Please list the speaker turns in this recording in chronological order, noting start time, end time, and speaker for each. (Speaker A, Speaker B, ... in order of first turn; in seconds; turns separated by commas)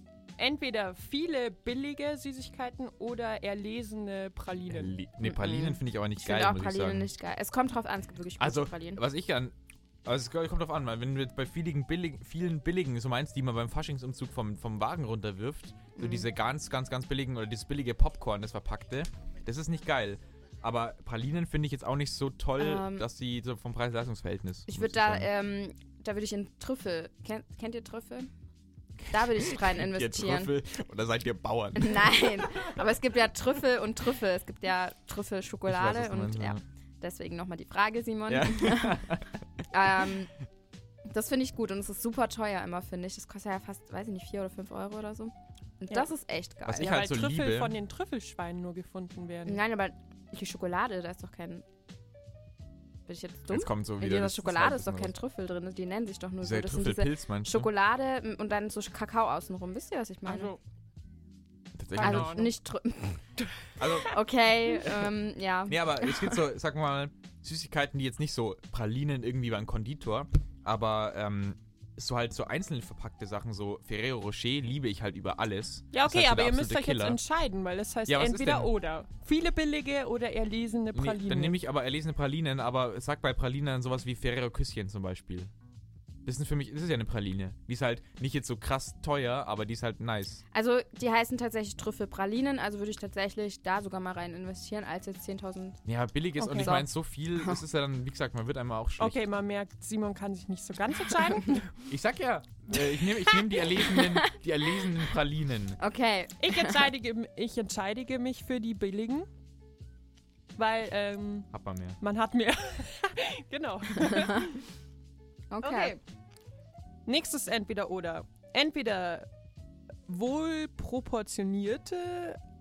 Speaker A: 0.4-4.9, Speaker B: 4.7-7.1, Speaker C: 5.2-9.0, Speaker B: 8.4-9.5, Speaker B: 10.1-25.3, Speaker C: 15.9-16.3, Speaker C: 22.6-23.1, Speaker C: 24.7-28.3, Speaker B: 29.0-32.4, Speaker C: 29.1-30.6, Speaker C: 31.8-39.1, Speaker B: 35.7-36.6, Speaker B: 38.3-39.4, Speaker C: 39.7-40.3, Speaker C: 41.1-46.9, Speaker B: 46.7-47.8, Speaker A: 46.8-49.6, Speaker C: 49.5-51.6, Speaker C: 53.1-60.5, Speaker B: 53.5-55.1, Speaker B: 56.4-57.7, Speaker A: 60.3-60.6, Speaker B: 61.8-62.5, Speaker A: 62.0-62.5, Speaker C: 62.0-63.2, Speaker B: 63.8-64.2, Speaker C: 64.0-66.4, Speaker B: 65.7-77.2, Speaker A: 75.9-81.6, Speaker B: 78.1-78.7, Speaker B: 80.9-85.5, Speaker B: 86.2-90.4, Speaker C: 90.5-95.8, Speaker B: 95.9-99.2, Speaker C: 96.4-96.9, Speaker A: 96.5-96.7, Speaker A: 99.0-101.8, Speaker B: 101.9-105.8, Speaker C: 103.9-104.3, Speaker C: 105.8-106.9, Speaker A: 106.4-109.3, Speaker A: 110.5-111.5, Speaker B: 111.5-112.0, Speaker A: 112.0-114.6, Speaker C: 115.5-116.0, Speaker A: 115.6-116.0, Speaker A: 117.0-119.3, Speaker A: 120.1-122.4